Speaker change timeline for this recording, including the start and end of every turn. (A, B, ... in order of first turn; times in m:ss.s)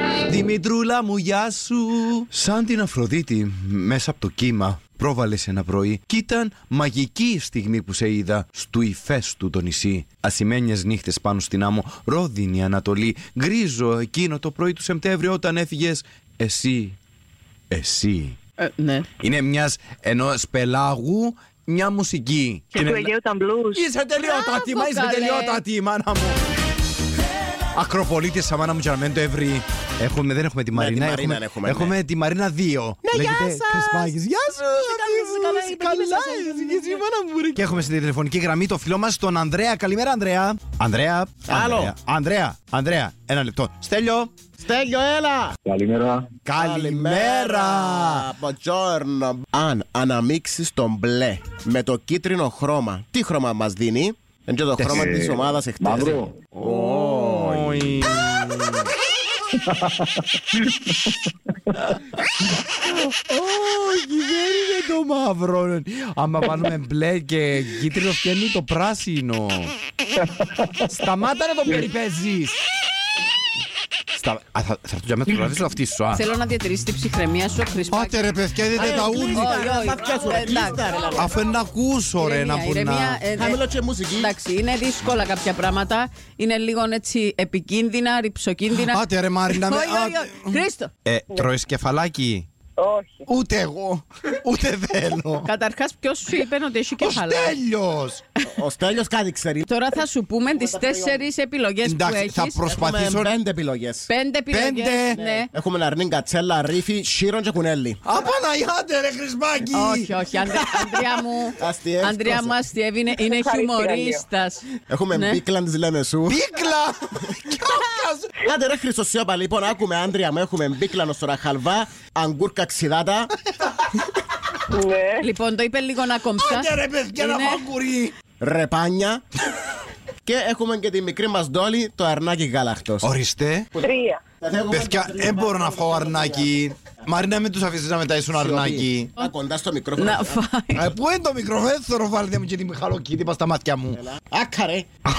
0:00.3-0:17.0 A
0:17.7-0:18.4 A
0:18.6-0:19.1 B
0:19.2-0:23.1 A
0:22.7-0:23.8 C
0:23.7-0:26.4 A
0:24.2-0:25.6 B
0:27.7-0:44.3 A
0:30.7-0:32.0 D
0:33.1-0:34.1 D
0:34.6-0:37.5 B
0:41.4-0:41.9 D
0:44.6-0:45.6 D
0:45.7-0:46.3 E
0:46.4-0:48.3 A
0:46.6-0:58.0 D
0:54.8-0:58.9 A
0:55.0-0:55.3 E
0:55.9-0:56.5 E
1:01.7-1:02.2 A
1:02.8-1:09.7 A
1:10.4-1:10.7 E
1:10.8-1:12.6 A
1:14.1-1:16.2 A
1:16.1-1:20.9 B
1:17.9-1:19.6 A
1:18.7-1:21.4 D
1:21.1-1:23.2 A
1:22.2-1:23.6 B
1:23.4-1:24.3 D
1:24.2-1:30.9 B
1:28.8-1:32.5 A
1:32.8-1:33.2 C
1:33.3-1:35.5 A
1:35.4-1:37.6 B
1:37.0-1:38.2 A
1:38.5-1:39.7 D
1:39.6-1:42.6 B
1:40.5-1:41.2 D
1:41.8-1:43.3 A
1:42.7-1:44.1 D
1:44.1-1:45.5 B
1:44.5-1:45.2 A
1:45.1-1:48.0 D
1:48.0-1:51.2 A
1:49.7-1:55.4 B
1:51.6-1:52.6 D
1:53.3-1:54.2 C
1:54.9-1:56.4 D
1:56.2-1:58.3 A
1:58.4-2:03.3 D
2:04.7-2:05.2 C
2:05.2-2:07.7 B
2:06.4-2:08.1 A
2:08.4-2:09.2 D
2:10.2-2:13.1 D
2:13.0-2:13.7 A
2:13.8-2:14.2 C
2:13.8-2:16.6 D
2:14.7-2:19.1 A
2:18.3-2:20.4 D
2:20.0-2:20.9 B
2:20.7-2:24.0 A
2:23.9-2:24.9 D